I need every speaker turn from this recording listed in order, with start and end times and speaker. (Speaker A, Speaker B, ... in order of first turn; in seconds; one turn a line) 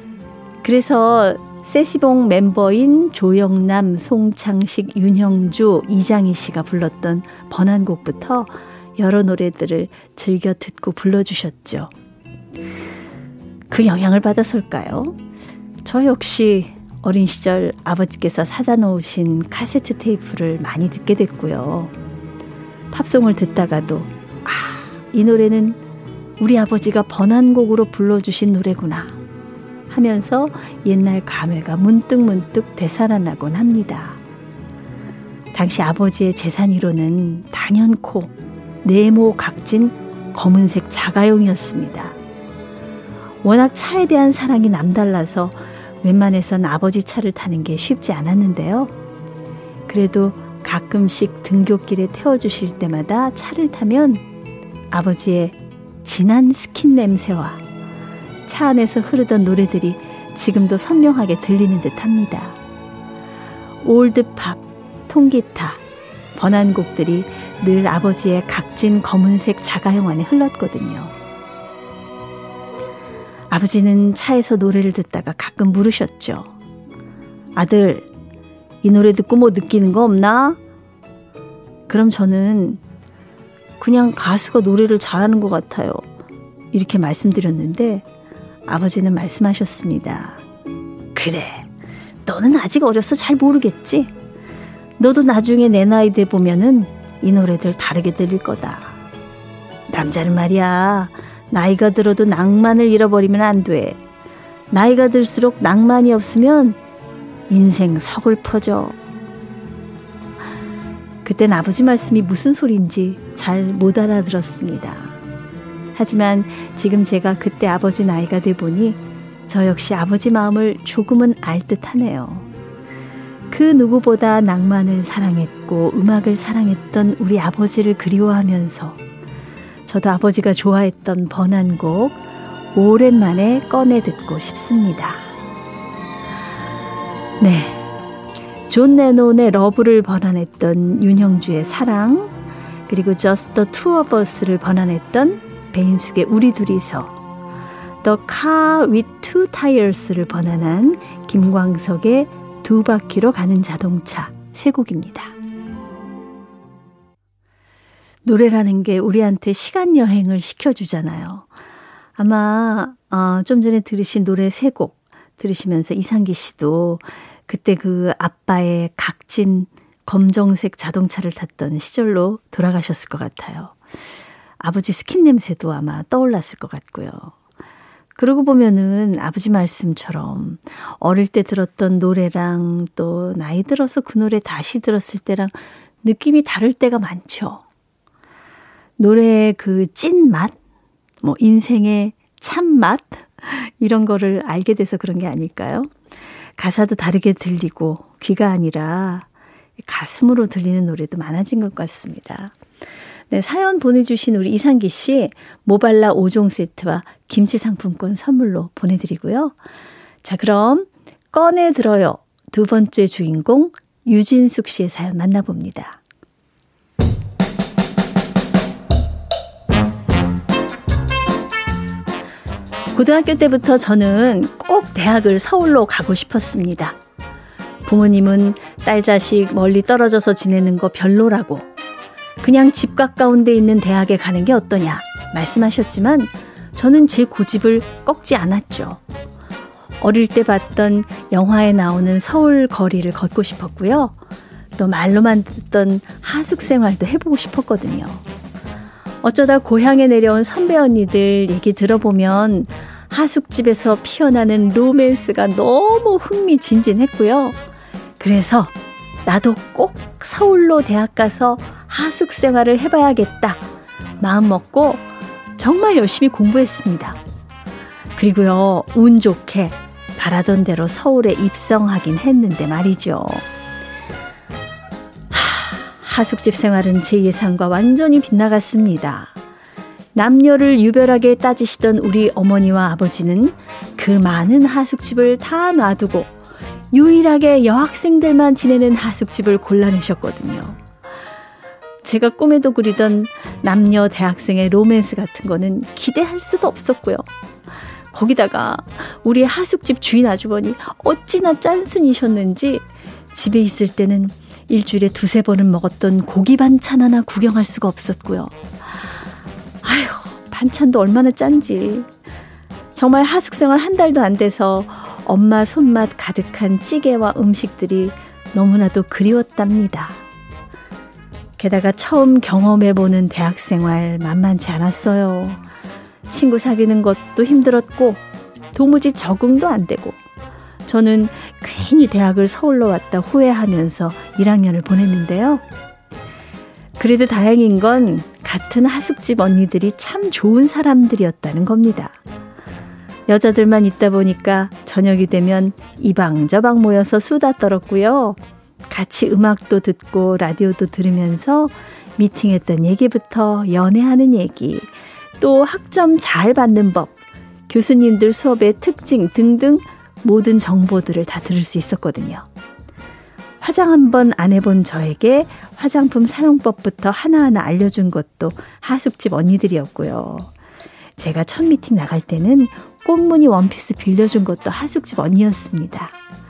Speaker A: 0.6-11.9
Speaker A: 13.7-15.2
Speaker A: 15.8-21.9
Speaker A: 22.9-25.8
Speaker A: 26.4-29.1
Speaker A: 29.9-34.2
Speaker A: 35.5-42.2
Speaker A: 43.4-48.9
Speaker A: 49.9-54.2
Speaker A: 54.9-57.6
Speaker A: 58.5-62.6
Speaker A: 63.8-65.8
Speaker A: 66.4-71.1
Speaker A: 73.5-76.5
Speaker A: 77.5-78.1
Speaker A: 78.8-80.6
Speaker A: 81.9-82.8
Speaker A: 83.8-86.0
Speaker A: 86.7-88.0
Speaker A: 88.7-90.4
Speaker A: 91.2-91.7
Speaker A: 92.3-94.1
Speaker A: 95.0-99.0
Speaker A: 99.9-104.0
Speaker A: 104.7-106.8
Speaker A: 107.5-109.0
Speaker A: 111.2-115.2
Speaker A: 116.0-122.5
Speaker A: 123.5-129.0
Speaker A: 129.9-132.2
Speaker A: 132.7-135.2
Speaker A: 137.4-137.9
Speaker A: 138.7-142.3
Speaker A: 142.9-147.2
Speaker A: 148.0-155.3
Speaker A: 158.2-161.5
Speaker A: 162.2-173.8
Speaker A: 174.6-177.3
Speaker A: 178.2-187.6
Speaker A: 189.0-190.6
Speaker A: 191.2-195.9
Speaker A: 196.6-199.3
Speaker A: 199.8-202.5
Speaker A: 203.3-209.6
Speaker A: 210.2-216.0
Speaker A: 222.9-227.0
Speaker A: 227.8-231.7
Speaker A: 232.4-239.0
Speaker A: 240.0-244.2
Speaker A: 244.8-248.2
Speaker A: 249.2-257.6
Speaker A: 258.2-258.7
Speaker A: 259.3-263.6
Speaker A: 264.2-265.0
Speaker A: 265.6-267.2
Speaker A: 268.2-273.4
Speaker A: 275.3-279.4
Speaker A: 280.1-286.3
Speaker A: 286.9-290.8
Speaker A: 292.0-297.2
Speaker A: 298.1-308.6
Speaker A: 309.8-312.1
Speaker A: 312.9-320.2
Speaker A: 321.6-325.6
Speaker A: 326.3-328.2
Speaker A: 328.7-330.2
Speaker A: 330.9-335.6
Speaker A: 337.0-342.2
Speaker A: 343.3-348.4
Speaker A: 348.9-357.2
Speaker A: 357.7-362.5
Speaker A: 363.6-370.5
Speaker A: 371.2-376.1